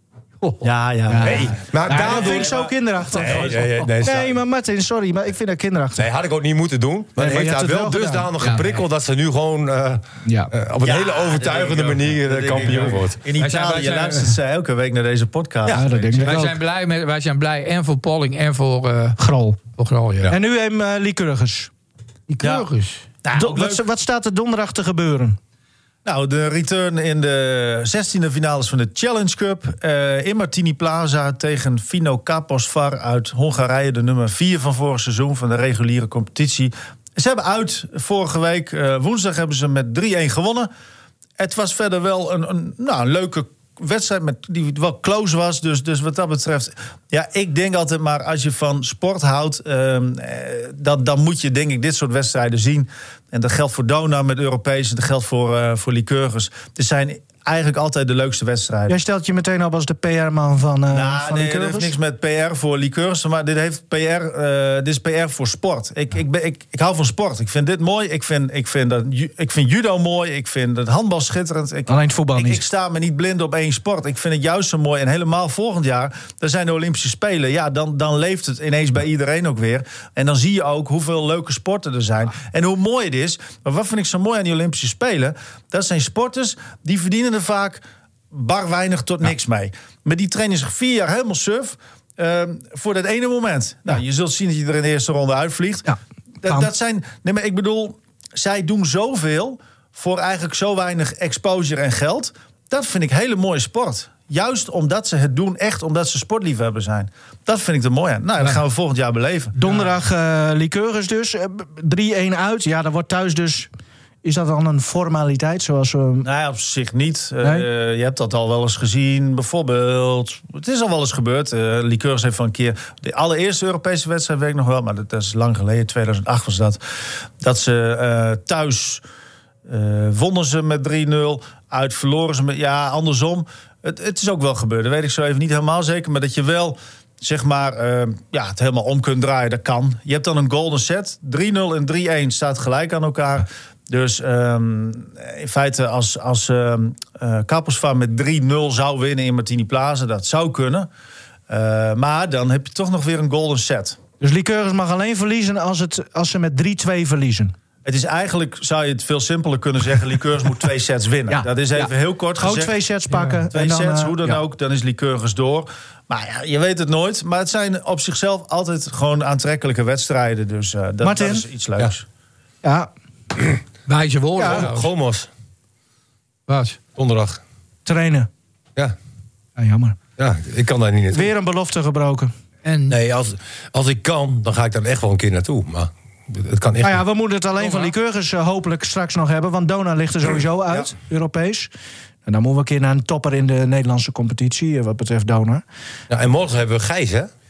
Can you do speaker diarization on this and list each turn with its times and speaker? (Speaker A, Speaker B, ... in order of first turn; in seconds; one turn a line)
Speaker A: 0.6-3.6
Speaker B: 1.1-6.0
Speaker C: 1.2-4.4
Speaker C: 6.0-13.2
Speaker B: 7.2-8.6
Speaker D: 8.4-8.8
Speaker B: 10.3-10.5
Speaker A: 10.8-15.9
Speaker D: 13.4-14.3
Speaker C: 15.7-16.3
Speaker B: 15.7-16.6
Speaker D: 16.2-19.2
Speaker B: 19.2-19.6
Speaker D: 19.7-20.3
Speaker B: 20.3-21.7
Speaker D: 22.3-23.1
Speaker A: 23.2-23.8
Speaker B: 23.3-25.4
Speaker A: 26.0-40.7
Speaker A: 41.4-59.0
Speaker B: 58.9-61.9
Speaker A: 60.9-95.9
Speaker B: 71.9-72.6
Speaker B: 95.8-96.7
Speaker A: 96.4-109.7
Speaker B: 109.5-113.7
Speaker B: 114.2-116.3
Speaker A: 116.2-126.8
Speaker A: 127.4-129.0
Speaker A: 129.7-150.9
Speaker A: 151.5-154.0
Speaker B: 154.2-157.5
Speaker A: 157.8-172.1
Speaker B: 161.3-164.4
Speaker B: 171.0-171.4
Speaker B: 172.6-172.9
Speaker D: 173.9-174.9
Speaker B: 174.4-174.7
Speaker C: 174.4-175.3
Speaker D: 176.5-176.8
Speaker C: 176.9-177.4
Speaker B: 177.8-178.3
Speaker B: 179.6-180.0
Speaker C: 180.2-181.3
Speaker B: 181.1-182.3
Speaker D: 182.6-183.0
Speaker C: 182.9-187.0
Speaker B: 186.8-191.7
Speaker D: 187.6-187.9
Speaker B: 192.2-195.6
Speaker C: 196.1-197.3